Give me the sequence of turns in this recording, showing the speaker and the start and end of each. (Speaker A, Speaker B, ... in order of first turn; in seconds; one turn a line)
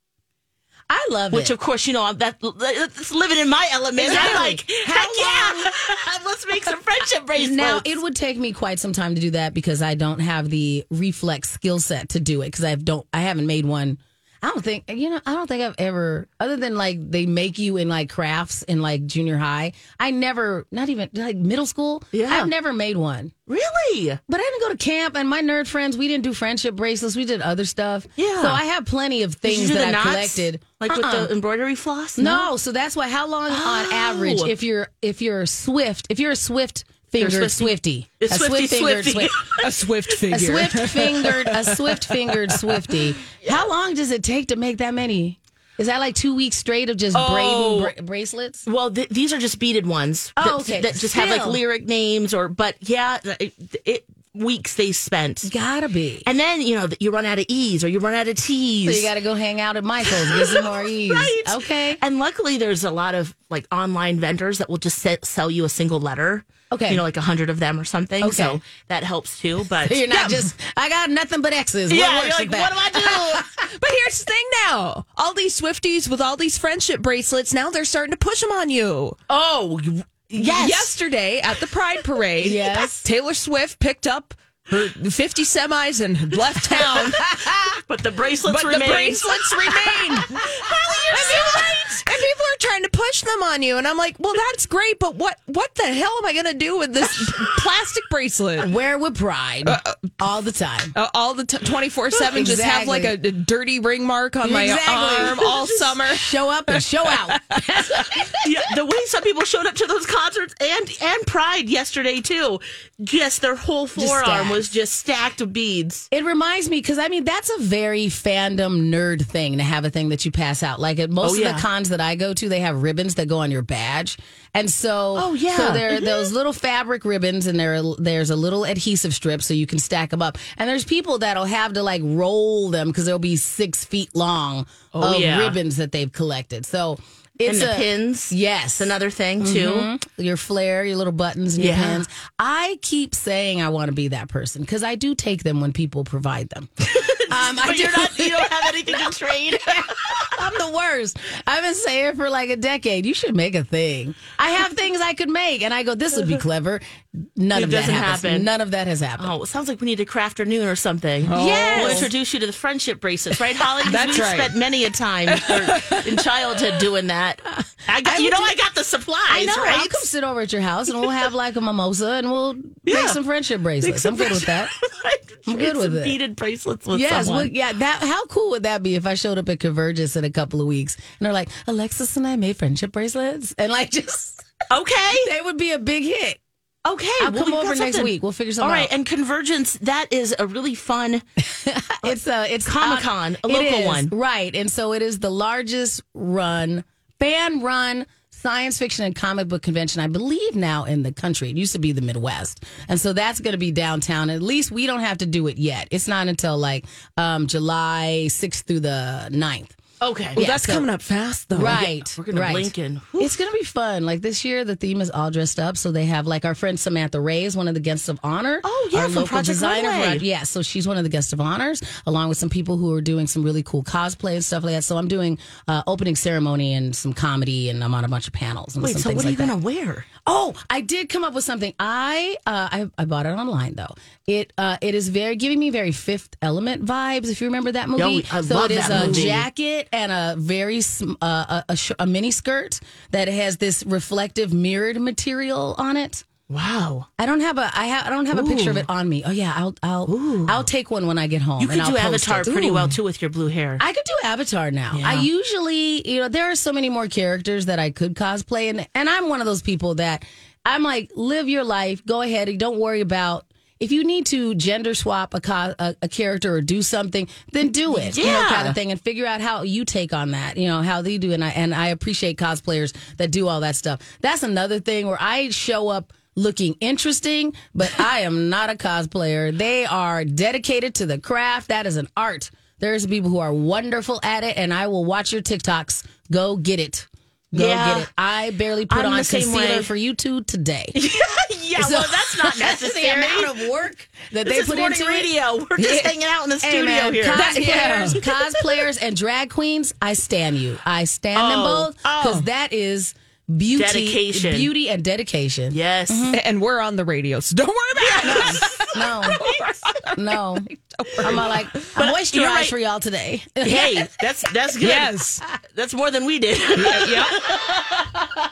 Speaker A: 0.9-1.6
Speaker B: 1.3-7.9
Speaker A: 4.0-5.7
Speaker A: 7.4-23.3
Speaker B: 22.1-22.5
Speaker B: 23.5-24.2
Speaker A: 24.3-31.3
Speaker B: 28.2-28.6
Speaker B: 29.4-32.5
Speaker A: 32.2-39.4
Speaker B: 33.5-34.5
Speaker B: 37.2-39.7
Speaker C: 39.5-42.8
Speaker A: 40.3-48.6
Speaker B: 47.1-47.9
Speaker B: 48.6-55.5
Speaker A: 50.4-51.6
Speaker A: 55.4-56.3
Speaker B: 56.2-59.1
Speaker A: 58.9-62.0
Speaker B: 60.0-70.1
Speaker A: 66.7-67.0
Speaker A: 68.2-68.6
Speaker A: 69.8-73.6
Speaker C: 70.1-70.5
Speaker B: 71.9-73.4
Speaker C: 73.7-79.2
Speaker B: 79.3-80.9
Speaker C: 80.4-87.4
Speaker A: 82.4-83.0
Speaker B: 82.5-82.9
Speaker A: 87.2-87.8
Speaker B: 87.9-92.0
Speaker C: 88.5-90.5
Speaker C: 91.1-98.7
Speaker A: 91.1-91.6
Speaker A: 98.6-100.9
Speaker C: 99.7-100.1
Speaker C: 101.0-107.6
Speaker A: 102.3-103.2
Speaker A: 104.4-105.5
Speaker B: 105.4-105.7
Speaker A: 106.0-108.5
Speaker B: 108.4-116.1
Speaker A: 114.0-114.7
Speaker A: 116.1-149.1
Speaker B: 121.2-121.7
Speaker B: 125.2-126.3
Speaker B: 134.9-135.6
Speaker B: 137.5-139.9
Speaker B: 141.6-142.0
Speaker B: 146.9-150.3
Speaker A: 149.7-159.3
Speaker B: 157.5-158.5
Speaker B: 159.2-170.1
Speaker C: 161.2-162.1
Speaker A: 161.3-162.1
Speaker C: 163.8-164.6
Speaker C: 165.3-166.1
Speaker A: 167.5-168.6
Speaker A: 169.3-174.7
Speaker B: 172.9-173.2
Speaker B: 173.8-177.5
Speaker A: 175.5-176.2
Speaker A: 176.9-184.4
Speaker B: 184.7-185.3
Speaker A: 185.2-186.4
Speaker B: 186.8-191.2
Speaker A: 187.2-188.9
Speaker A: 191.4-209.8
Speaker B: 192.0-194.1
Speaker B: 210.0-210.4
Speaker A: 210.3-210.9
Speaker C: 210.4-211.8
Speaker A: 211.5-229.6
Speaker B: 211.6-213.4
Speaker B: 218.6-220.2
Speaker B: 228.8-230.1
Speaker A: 230.2-246.2
Speaker B: 238.0-239.5
Speaker C: 238.9-239.3
Speaker B: 246.5-247.1
Speaker A: 247.2-253.0
Speaker B: 248.3-248.9
Speaker B: 250.1-250.7
Speaker B: 251.6-253.8
Speaker A: 253.8-291.0
Speaker B: 254.9-255.3
Speaker B: 268.0-268.8
Speaker B: 287.6-288.1
Speaker B: 288.9-289.9
Speaker B: 290.9-293.6
Speaker A: 291.8-306.4
Speaker B: 294.4-298.7
Speaker C: 297.3-298.2
Speaker B: 301.4-302.4
Speaker B: 303.8-304.7
Speaker B: 305.7-306.4
Speaker C: 306.3-308.9
Speaker B: 308.0-309.9
Speaker A: 308.2-309.4
Speaker C: 309.4-310.2
Speaker A: 310.1-310.7
Speaker C: 310.9-311.8
Speaker A: 311.2-314.1
Speaker B: 311.9-312.8
Speaker B: 313.6-318.2
Speaker C: 314.8-315.4
Speaker C: 316.8-317.4